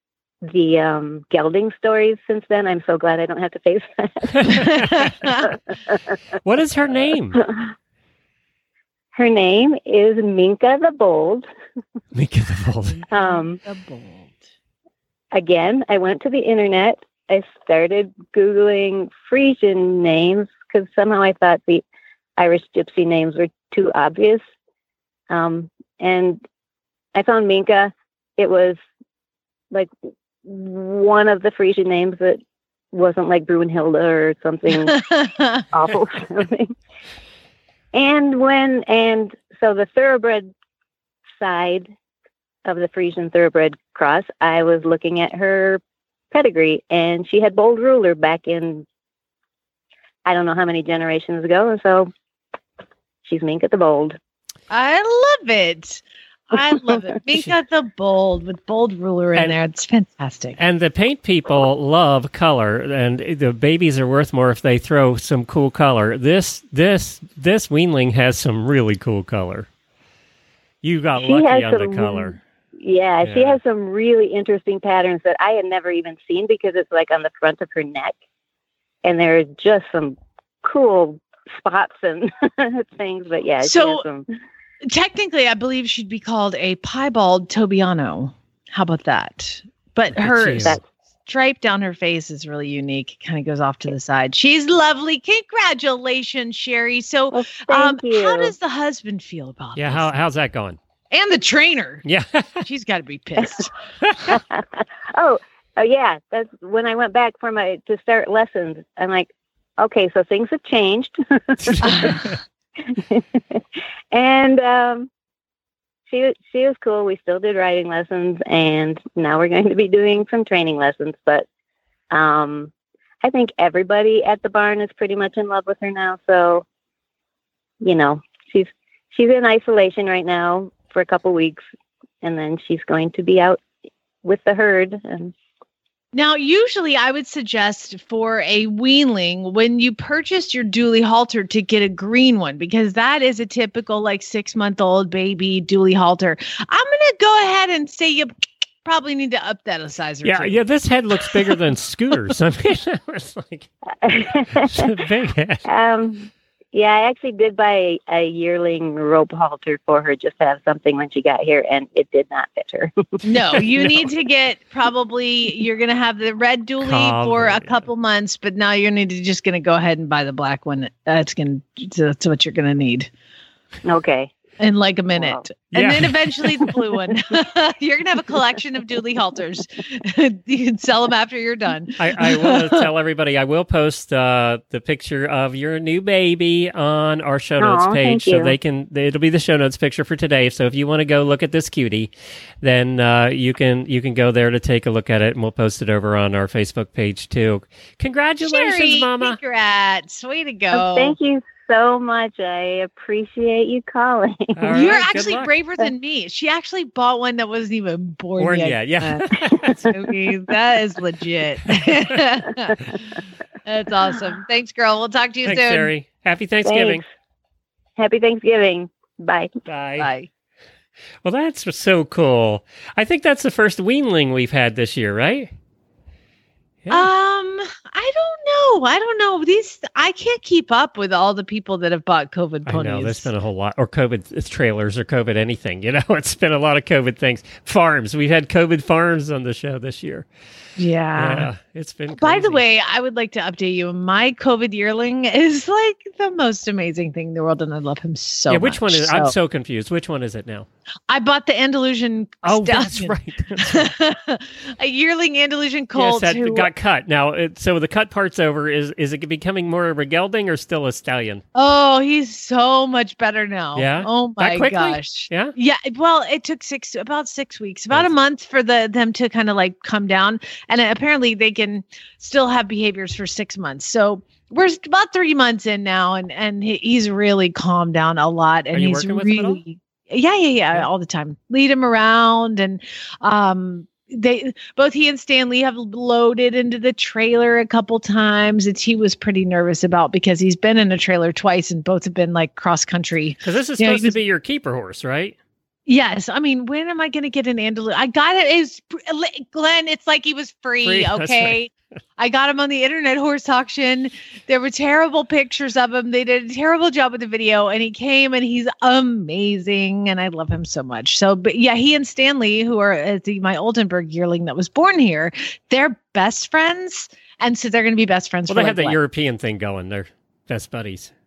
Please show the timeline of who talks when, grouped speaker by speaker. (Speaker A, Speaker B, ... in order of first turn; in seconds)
Speaker A: 0.5-4.7, 7.4-7.7, 9.2-11.5, 13.1-13.6, 15.3-21.8, 22.4-24.4, 25.3-26.4, 27.1-28.8, 30.4-32.4, 32.9-35.0, 35.7-36.7, 37.9-40.5, 41.4-41.9, 42.6-45.8, 46.3-48.9, 50.2-52.1, 53.2-54.2, 71.2-78.1, 79.0-84.2, 97.3-98.5, 104.3-112.2, 112.9-113.6, 114.1-115.1, 116.1-121.4, 122.1-122.7, 123.2-126.6, 127.8-131.6, 132.2-133.6, 134.2-135.3, 154.0-154.9, 155.7-162.9, 173.8-174.3, 175.2-175.4, 187.6-188.5, 200.7-205.0, 216.6-217.0, 218.0-219.5
Speaker B: 4.4-5.1, 6.4-7.4, 12.1-13.0, 60.6-69.7, 70.8-72.4, 73.2-73.6, 90.2-90.8, 99.8-100.8, 102.0-102.6, 104.0-104.3, 111.6-112.2, 150.2-153.7, 154.6-155.6, 163.6-164.1, 166.8-167.8, 175.7-176.6, 182.0-199.4, 204.6-205.5, 208.4-209.9, 211.7-212.2, 215.4-217.0, 219.7-220.1, 221.2-225.5, 226.8-227.1, 232.7-240.3, 241.2-242.6, 248.5-250.7, 252.4-253.9, 255.9-261.4, 263.8-265.5, 278.7-279.6, 293.4-295.4, 300.8-301.6, 318.5-321.1
Speaker C: 4.5-5.5, 12.9-14.4, 34.9-35.6, 54.7-60.6, 83.6-84.0, 84.8-100.1, 101.1-102.0, 102.6-103.7, 111.8-112.2, 136.1-148.3, 148.8-150.6, 163.2-173.1, 174.6-182.9, 198.4-201.1, 204.7-212.9, 213.7-215.9, 220.0-220.3, 226.9-233.3, 240.8-241.5, 242.2-249.3, 251.1-256.7, 261.5-294.1, 295.9-319.0